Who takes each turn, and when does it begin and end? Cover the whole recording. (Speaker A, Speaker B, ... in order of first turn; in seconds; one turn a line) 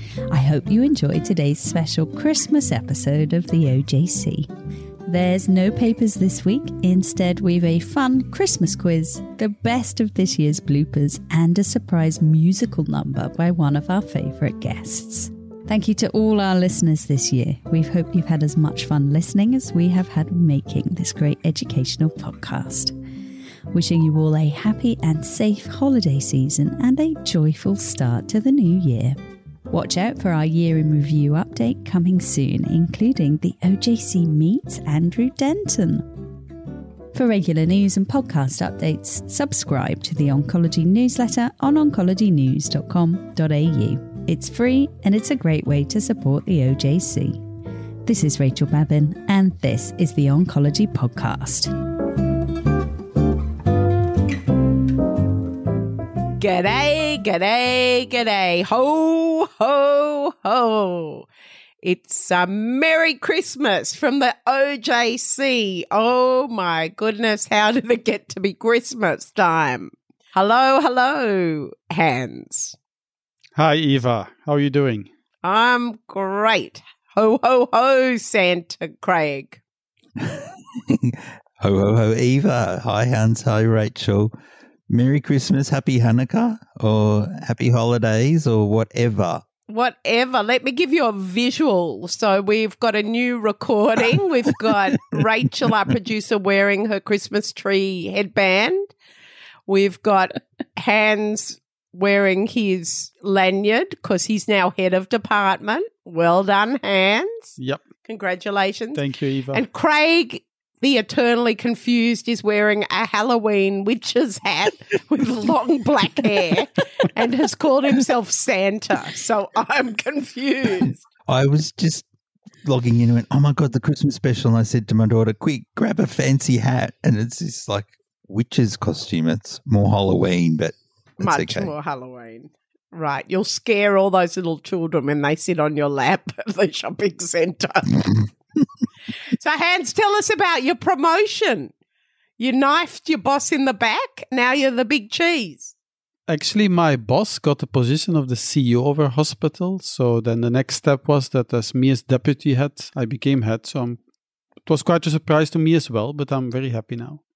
Speaker A: 0.3-4.5
Speaker A: 5.0-22.9
Speaker A: 23.7-29.2
Speaker A: 29.7-36.1
Speaker A: 37.1-47.4
Speaker A: 48.0-51.7
Speaker B: 56.4-61.3
Speaker B: 61.8-72.8
Speaker C: 73.6-75.1
Speaker B: 75.4-79.6
Speaker D: 80.2-84.3
Speaker D: 84.9-89.4
Speaker B: 89.7-98.9
Speaker B: 99.7-107.5
Speaker B: 108.1-121.0
Speaker C: 108.9-109.6
Speaker D: 120.8-122.0
Speaker D: 122.6-131.7
Speaker B: 131.2-138.0
Speaker B: 139.3-141.7
Speaker B: 142.4-145.7
Speaker C: 146.3-154.0
Speaker C: 154.7-157.2